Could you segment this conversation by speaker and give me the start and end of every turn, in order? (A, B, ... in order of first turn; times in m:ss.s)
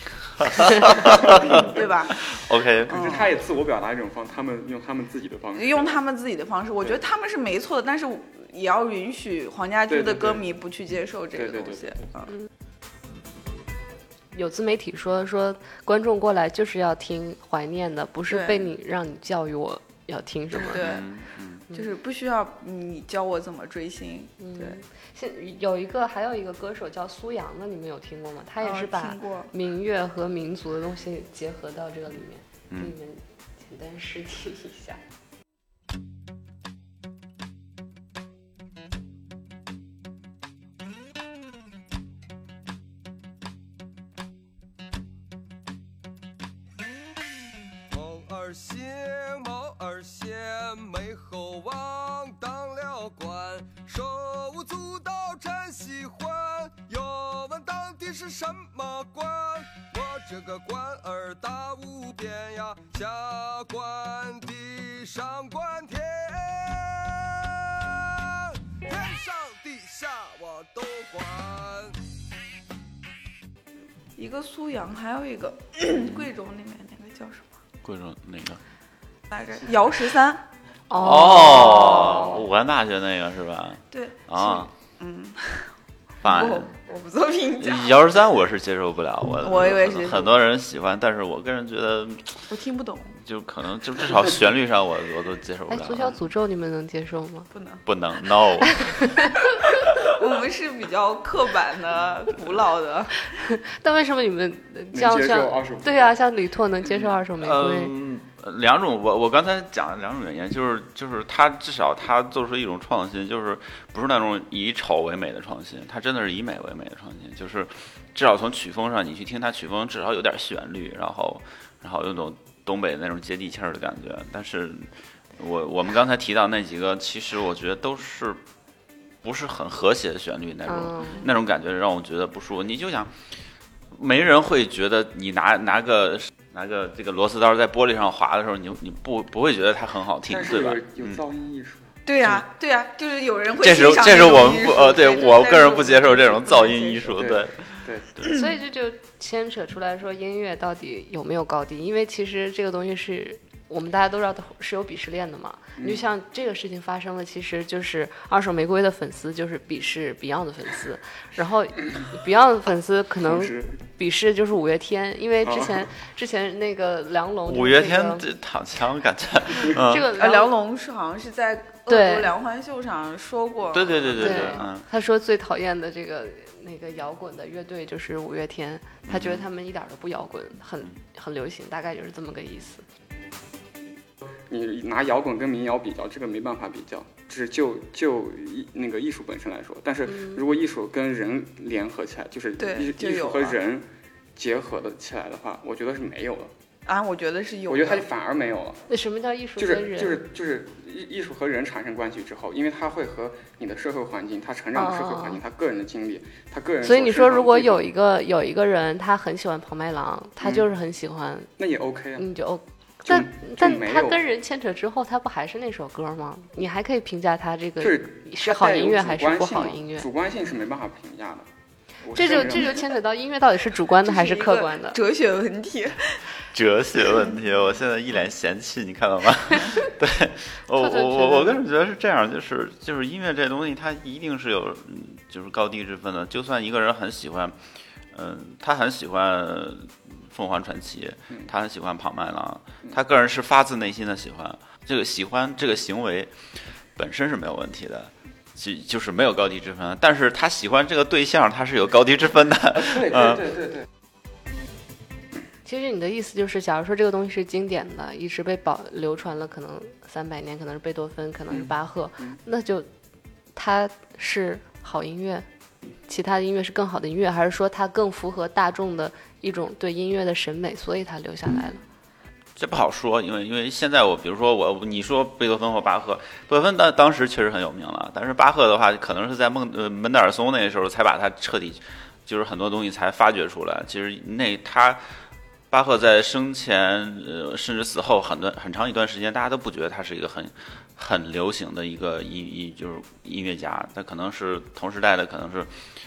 0:00.4-0:03.1 A
0:00.4-0:02.3 B
0:01.2-0:01.8 C
0:02.9-0:06.0 C
0:02.9-0:03.3 B
0:05.6-0:12.3 B
0:09.9-0:10.4 C
0:11.4-0:11.9 C
0:14.3-0:20.8 D
0:18.3-0:18.7 B
0:20.6-0:21.1 B
0:20.8-0:21.6 A
0:21.7-0:24.8 B
0:24.4-0:35.0 D
0:28.6-0:29.5 B
0:32.7-0:33.0 A
0:47.9-1:12.0 E
1:14.2-1:17.6 B
1:15.9-1:16.3 A
1:17.8-1:18.6 A
1:19.3-1:20.4 B
1:20.9-1:22.3 D
1:21.0-1:24.7 A
1:21.5-1:22.3 B
1:23.9-1:28.0 B
1:26.2-1:26.7 A
1:27.6-1:32.5 A
1:29.4-1:30.4 B
1:32.5-1:33.2 B
1:33.2-1:36.2 A
1:35.7-1:37.5 D
1:37.5-1:37.8 B
1:37.9-1:39.2 A
1:38.8-1:39.3 D
1:39.6-1:43.3 B
1:43.4-1:47.9 D
1:44.9-1:46.2 C
1:47.4-2:08.4 A
2:09.2-2:13.1 A
2:10.7-2:11.3 D
2:13.9-2:21.2 A
2:20.3-2:21.9 C
2:22.1-2:27.2 B
2:23.6-2:28.3 A
2:27.2-2:28.1 C
2:28.2-2:48.2 D
2:35.8-2:36.0 C
2:43.2-2:43.8 C
2:45.4-2:45.9 C
2:47.5-2:50.1 A
2:49.6-2:50.5 D
2:50.2-2:54.6 B
2:51.9-2:52.3 D
2:53.7-2:54.8 A
2:54.2-3:02.8 D
2:59.1-2:59.5 A
3:04.3-3:16.5 C
3:10.1-3:10.4 D
3:12.6-3:13.6 B
3:16.9-3:18.1 B
3:17.7-3:18.8 C
3:18.9-3:20.2 D
3:19.6-3:27.9 C
3:24.7-3:25.4 D
3:26.8-3:31.5 D
3:30.4-3:30.7 C
3:31.6-3:32.3 C
3:32.2-3:40.1 D
3:33.0-3:34.3 C
3:37.8-3:41.5 C
3:42.0-3:42.9 C
3:42.1-3:45.0 D
3:44.0-3:46.2 B
3:46.5-3:57.6 A
3:50.8-3:51.6 D
3:58.1-4:06.3 A
4:07.0-4:13.6 A
4:12.8-4:13.8 C
4:15.6-4:22.9 D
4:23.6-4:25.5 D
4:26.1-4:31.8 D
4:32.6-4:45.0 A
4:45.7-4:55.7 A